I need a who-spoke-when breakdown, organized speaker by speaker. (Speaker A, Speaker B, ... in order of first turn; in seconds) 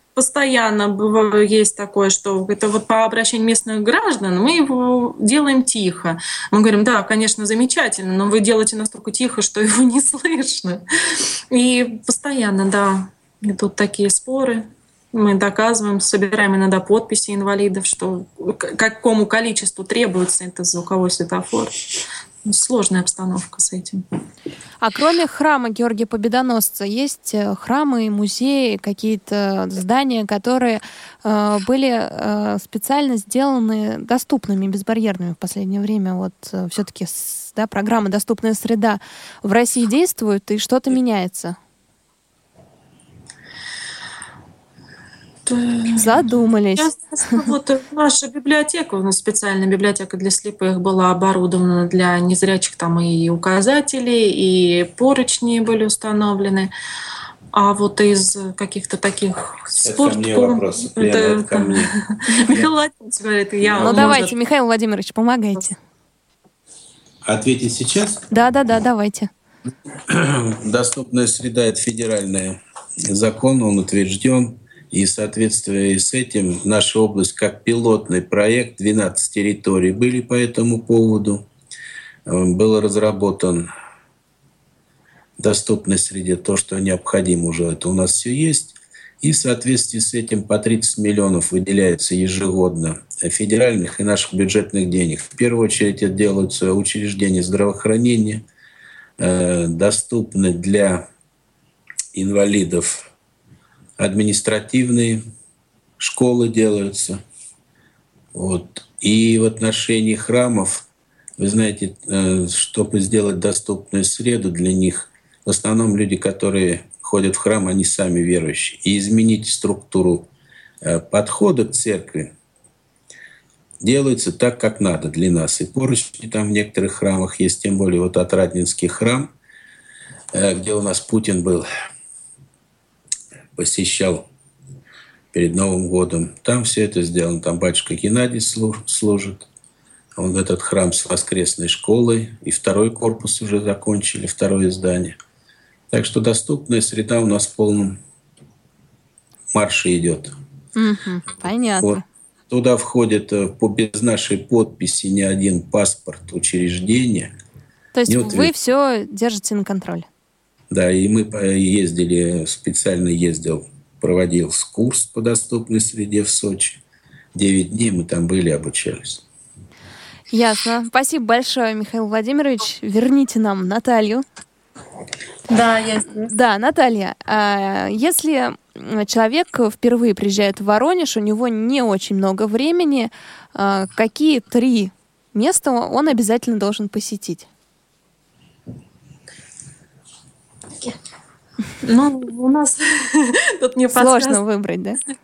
Speaker A: 0.1-10.8, 11.5-21.9, 22.4-24.0, 45.5-46.2, 46.8-56.7, 57.5-64.3, 175.5-176.3, 191.8-194.4
Speaker B: 24.8-41.5, 46.0-47.4, 63.8-65.8, 68.3-69.3, 150.8-152.0, 157.9-160.1, 170.3-174.2, 176.2-187.4, 193.9-195.0
Speaker C: 59.8-61.9, 63.6-64.3, 67.2-68.3, 70.1-81.5, 82.2-83.7, 85.4-98.4, 99.2-101.0, 102.1-103.1, 104.0-105.2, 106.0-107.2, 108.3-110.8, 111.4-120.3, 120.8-122.3, 123.8-129.3, 130.3-131.7, 133.6-134.3, 135.3-139.5, 140.1-145.2, 145.9-148.0, 149.5-150.3, 151.8-157.3, 158.1-158.5, 160.7-166.8, 167.3-169.2